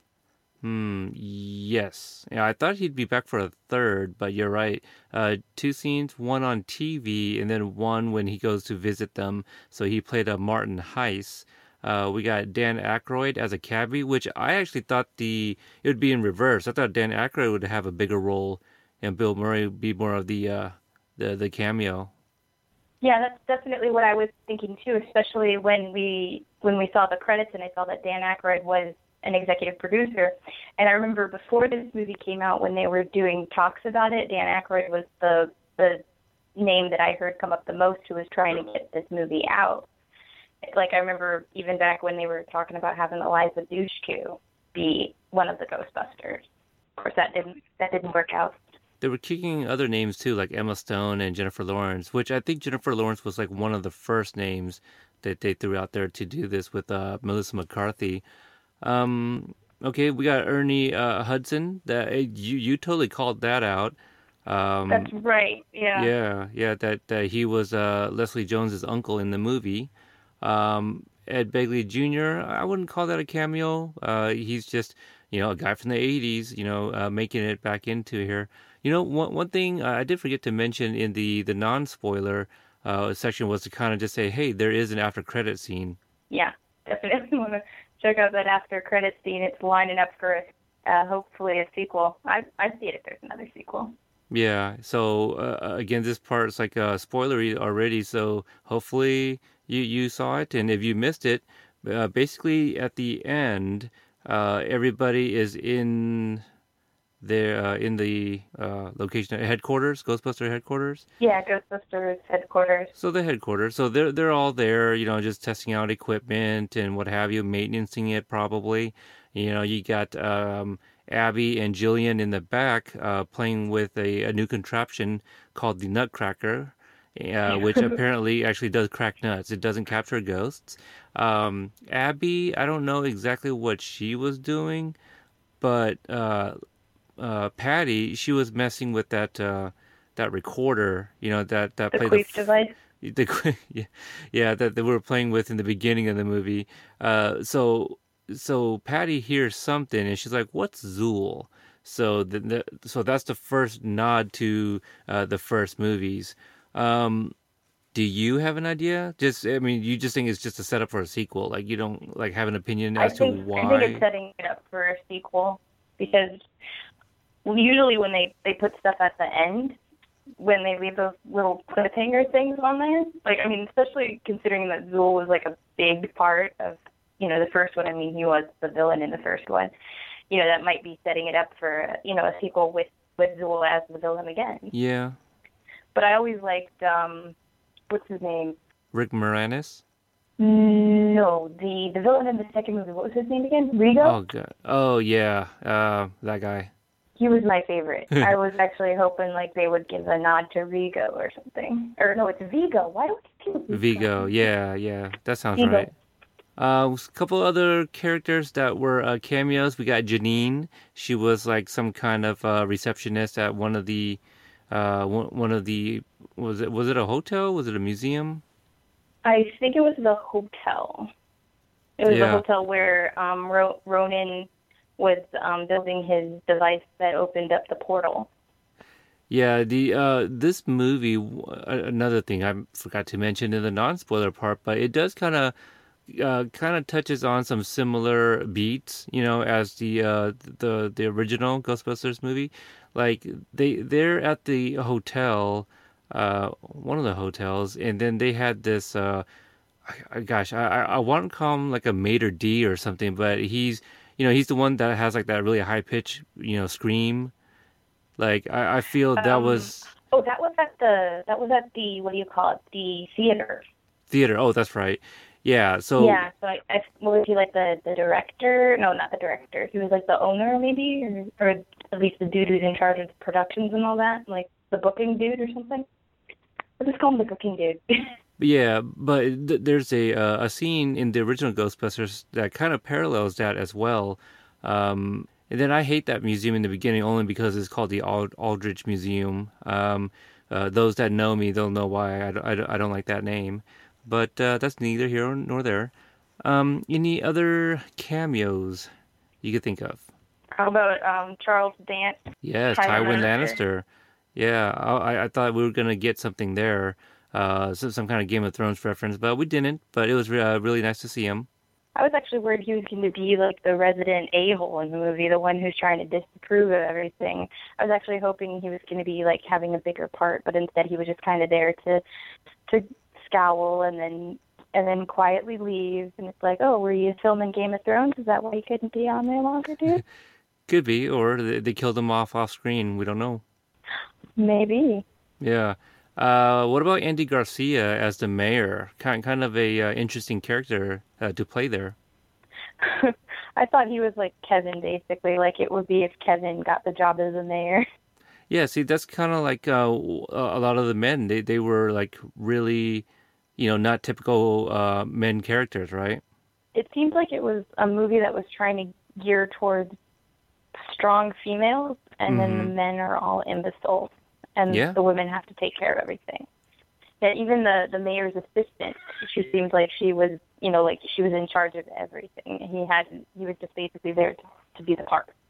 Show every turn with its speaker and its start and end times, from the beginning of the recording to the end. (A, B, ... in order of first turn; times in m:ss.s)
0:00.6-0:22.1 A
0:23.0-0:36.0 B
0:36.6-0:39.9 B
0:40.6-0:46.4 B
0:47.0-0:48.6 B
0:49.0-0:58.2 A
0:58.8-1:05.1 A
1:04.9-1:06.1 B
1:05.9-1:26.0 A
1:26.3-1:33.9 B
1:34.3-1:46.4 A
1:47.2-1:51.0 A
1:51.2-1:52.9 B
1:52.9-2:15.0 A
2:07.5-2:08.0 B
2:15.6-2:16.6 A
2:17.2-2:22.5 A
2:21.9-2:22.7 B
2:23.0-2:37.3 A
2:37.9-2:44.0 A
2:43.0-2:46.4 B
2:47.4-2:49.8 B
2:50.4-2:59.7 B
3:00.3-3:04.7 B
3:04.7-3:05.2 A
3:05.9-3:07.3 B
3:07.9-3:08.6 B
3:08.9-3:09.8 A
3:10.4-3:14.2 B
3:14.0-3:16.7 A
3:17.2-3:24.3 B
3:23.7-3:25.9 A
3:25.6-3:25.9 B
3:26.6-3:38.4 A
3:39.2-3:41.1 B
3:42.0-3:48.3 B
3:42.0-3:42.4 A
3:49.3-3:55.5 A
3:56.1-4:09.2 A
4:09.8-4:17.3 A
4:18.2-4:19.9 A
4:19.2-4:23.6 B
4:24.1-4:26.2 A
4:26.0-4:35.8 B
4:36.8-4:38.1 B
4:38.4-4:58.9 A
4:59.4-5:00.1 A
5:00.5-5:02.2 B
5:02.4-5:11.5 A
5:02.7-5:03.6 B
5:12.0-5:22.0 B
5:22.7-5:30.0 B
5:30.7-5:33.4 A
5:34.4-5:35.0 B
5:35.4-5:42.0 A
5:42.8-5:47.8 B
5:48.5-5:53.0 A
5:53.6-5:56.2 A
5:56.7-5:59.9 B
6:00.8-6:06.5 B
6:02.3-6:02.7 A
6:04.7-6:05.0 A
6:07.2-6:15.3 B